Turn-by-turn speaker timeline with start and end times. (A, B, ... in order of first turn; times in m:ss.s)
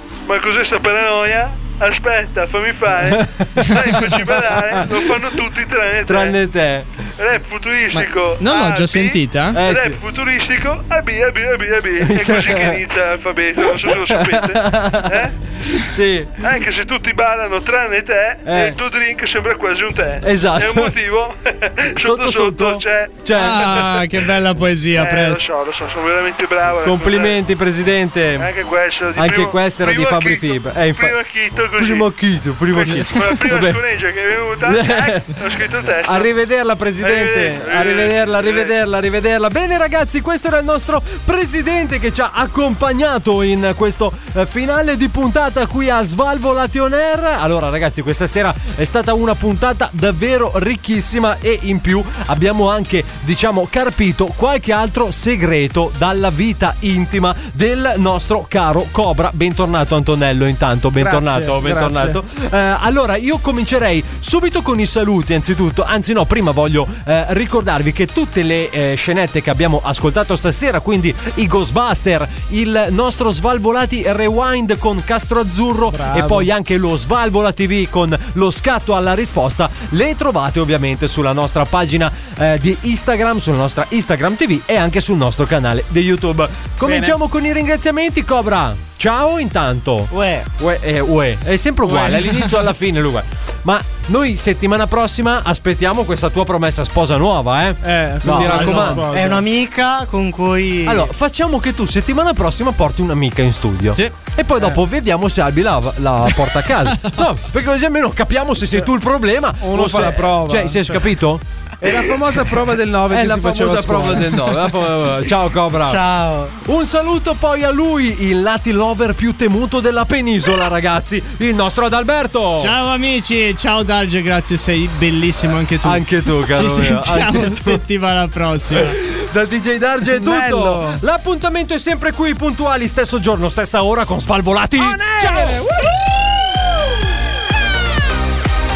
0:00.3-0:06.4 A
0:03.0-0:05.4 B
0:06.1-0:06.9 B
0:07.2-0:15.4 A
0:07.9-0:09.6 C
0:09.5-0:10.0 B
0:12.0-0:12.8 B
0:13.6-0:16.3 B
0:16.4-0:23.2 A
0:18.4-0:18.8 B
0:20.2-0:21.0 B
0:21.9-0:24.0 B
0:23.3-0:25.4 C
0:25.0-0:27.4 A
0:26.8-0:28.5 B
0:28.4-0:32.1 A
0:29.1-0:31.2 B
0:31.7-0:33.8 B
0:32.7-0:36.3 A
0:34.6-0:35.4 B
0:36.0-1:39.1 B
0:37.0-0:38.7 A
1:01.0-1:02.2 D
1:15.9-1:16.5 D
1:30.1-1:30.5 E
1:31.8-1:32.5 C
1:37.8-1:39.5 D
1:38.2-1:41.1 E
1:40.8-1:52.4 B
1:49.6-1:51.0 D
1:51.8-1:54.4 D
1:53.1-1:56.0 B
1:55.8-1:56.6 E
1:56.6-2:02.7 B
2:02.6-2:09.0 C
2:05.8-2:07.8 B
2:08.7-2:15.5 B
2:10.1-2:11.0 D
2:14.8-2:15.5 D